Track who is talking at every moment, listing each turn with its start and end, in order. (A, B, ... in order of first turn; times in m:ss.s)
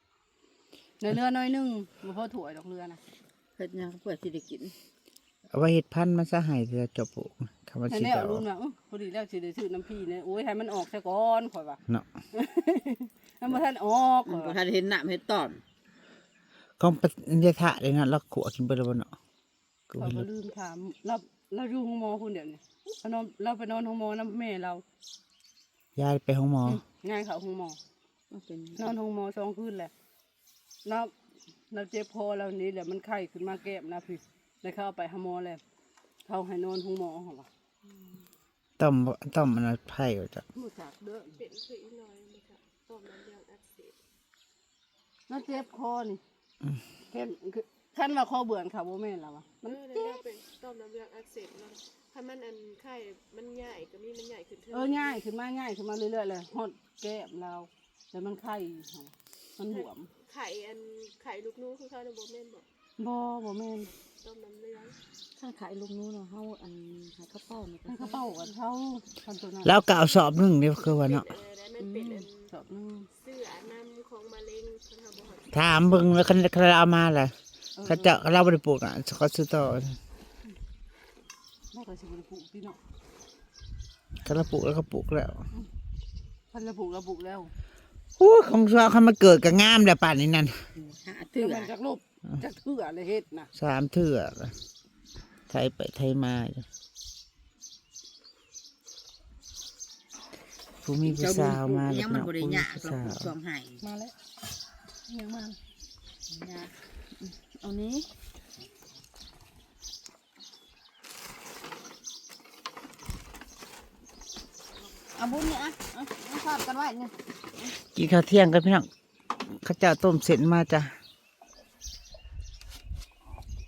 0:01.0-0:03.0 A
0:03.6-0:04.7 B
0:05.5-0:08.4 C
0:07.9-0:11.8 A
0:12.3-0:14.6 A
0:14.2-0:15.6 B
0:16.8-0:19.1 C
0:19.9-0:20.2 C
0:20.0-0:24.8 A
0:26.0-0:26.8 C
0:26.9-0:27.8 A
0:28.3-0:28.9 B
0:28.8-0:29.9 A
0:30.8-0:31.1 A
0:31.7-0:35.6 A
0:36.2-0:37.5 A
0:38.8-0:40.4 C
0:40.5-0:41.4 A
0:41.4-0:43.9 D
0:45.3-0:46.2 A
0:47.1-0:50.2 A
0:49.6-0:55.2 D
0:54.7-1:00.1 A
0:59.7-1:02.6 D
1:03.0-1:03.9 A
1:04.0-1:05.0 D
1:05.4-1:08.4 B
1:07.9-1:09.7 A
1:09.6-1:11.3 C
1:10.8-1:12.5 D
1:11.8-1:12.2 B
1:12.5-1:13.1 A
1:13.1-1:15.5 D
1:15.5-1:17.3 C
1:17.8-1:18.2 A
1:17.8-1:20.0 C
1:21.7-1:22.8 A
1:24.2-1:25.4 C
1:26.5-1:27.5 A
1:28.2-1:30.6 C
1:30.8-1:31.7 B
1:31.3-1:33.5 A
1:33.5-1:34.5 C
1:35.5-1:36.6 C
1:40.8-1:43.3 C
1:41.0-1:43.8 B
1:43.8-1:44.1 A
1:45.1-1:45.6 A
1:46.3-1:48.1 B
1:55.1-1:57.7 B
1:57.9-1:58.9 C
1:59.4-2:00.9 C